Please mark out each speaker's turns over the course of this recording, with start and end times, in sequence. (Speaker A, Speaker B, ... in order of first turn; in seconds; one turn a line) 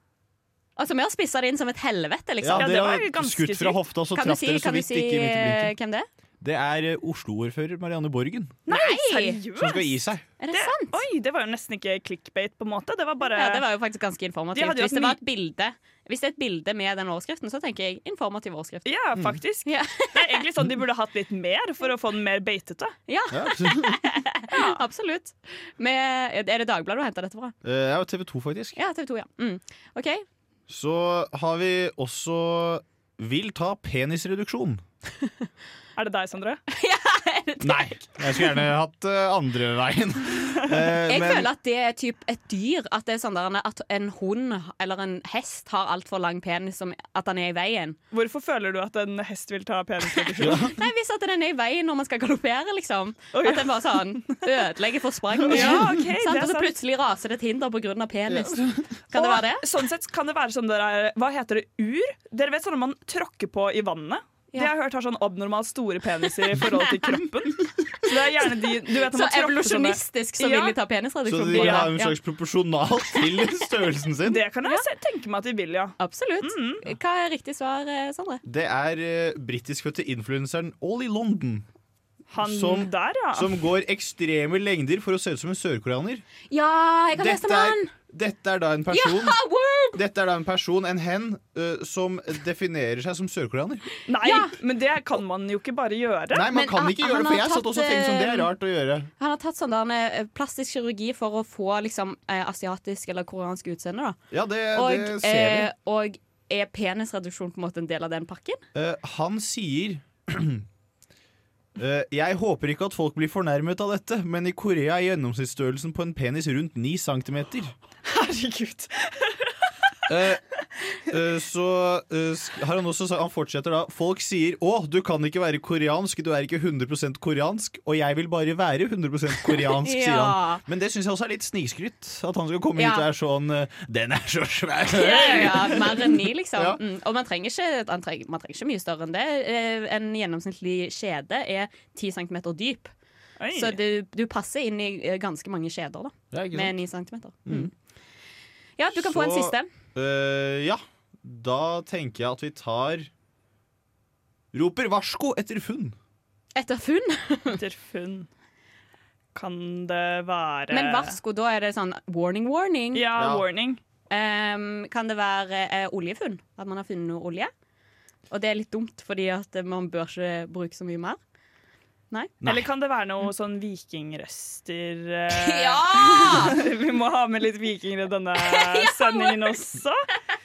Speaker A: 0.8-2.7
Speaker B: 2.4-5.7
Speaker C: 2.5-3.8
Speaker A: 4.1-6.1
Speaker B: 6.4-8.6
Speaker C: 8.7-9.9
Speaker A: 8.7-9.4
Speaker B: 9.6-10.2
Speaker A: 10.4-11.0
Speaker C: 10.5-13.6
Speaker A: 13.3-18.9
Speaker C: 14.5-15.2
Speaker C: 18.9-22.9
Speaker A: 19.6-20.4
Speaker A: 23.1-27.5
Speaker B: 23.3-24.0
Speaker C: 24.5-24.8
Speaker B: 27.6-28.8
Speaker A: 28.8-30.2
Speaker B: 30.7-34.8
Speaker C: 36.0-36.6
Speaker A: 36.7-38.1
Speaker B: 37.6-41.5
Speaker A: 41.1-48.0
Speaker C: 48.1-50.7
Speaker A: 50.2-59.6
Speaker B: 50.4-50.7
Speaker C: 53.3-54.3
Speaker C: 55.4-56.7
Speaker B: 55.5-55.9
Speaker B: 58.3-58.8
Speaker C: 59.1-70.7
Speaker A: 69.1-72.2
Speaker B: 71.3-74.4
Speaker C: 71.5-71.9
Speaker C: 74.2-76.8
Speaker A: 76.0-78.4
Speaker B: 78.5-81.6
Speaker C: 82.3-83.6
Speaker B: 82.4-86.2
Speaker A: 86.5-87.9
Speaker B: 87.2-89.4
Speaker A: 88.9-90.0
Speaker B: 89.9-93.8
Speaker C: 94.1-96.5
Speaker A: 94.2-94.5
Speaker B: 96.3-99.1
Speaker A: 96.5-98.5
Speaker A: 99.2-104.2
Speaker B: 104.3-105.7
Speaker A: 104.7-108.6
Speaker B: 108.7-110.6
Speaker B: 111.8-117.7
Speaker C: 118.1-119.1
Speaker B: 120.1-120.4
Speaker B: 121.1-136.8
Speaker A: 129.8-130.6
Speaker A: 132.8-133.0
Speaker A: 134.9-142.9
Speaker C: 143.4-143.8
Speaker A: 143.5-147.7
Speaker B: 146.3-146.8
Speaker A: 148.8-149.7
Speaker B: 148.9-153.1
Speaker B: 154.5-155.9
Speaker A: 156.5-157.6
Speaker C: 157.5-158.3
Speaker C: 159.3-161.2
Speaker A: 160.7-163.1
Speaker C: 162.9-163.8
Speaker B: 163.2-163.4
Speaker A: 164.1-167.5
Speaker A: 168.3-171.2
Speaker C: 172.4-180.1
Speaker A: 175.3-176.6
Speaker A: 178.4-179.6